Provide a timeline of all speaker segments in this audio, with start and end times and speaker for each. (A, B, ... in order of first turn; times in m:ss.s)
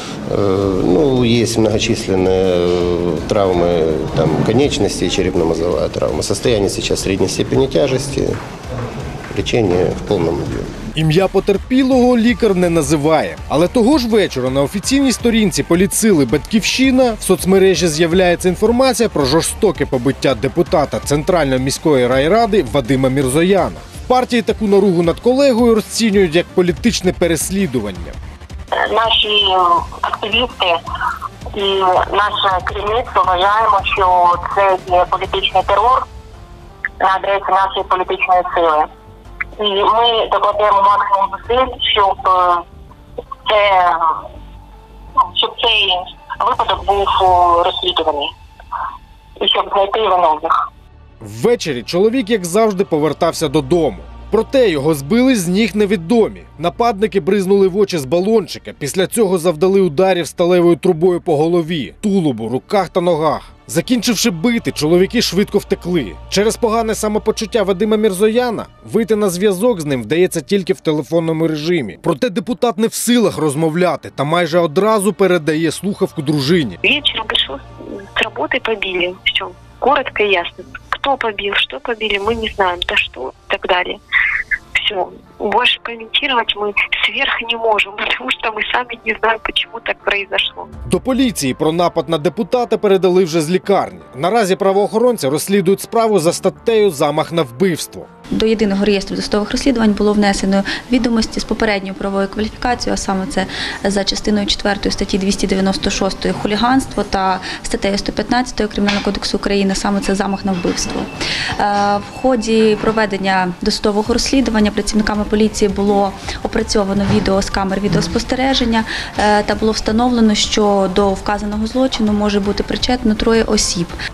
0:00.3-0:08.4 A
0:09.3-0:10.7 A
0:11.0-0:28.2 B
0:28.7-0:30.8 C
0:31.5-0:36.0 C
0:37.0-0:38.9 C
0:39.6-0:42.6 C
0:43.5-0:44.2 C
0:45.3-0:48.3 C
0:49.4-0:50.5 C
0:51.2-1:16.8 B
1:16.8-1:24.0 D
1:24.8-1:30.7 D
1:30.9-1:38.1 B
1:38.3-2:03.9 E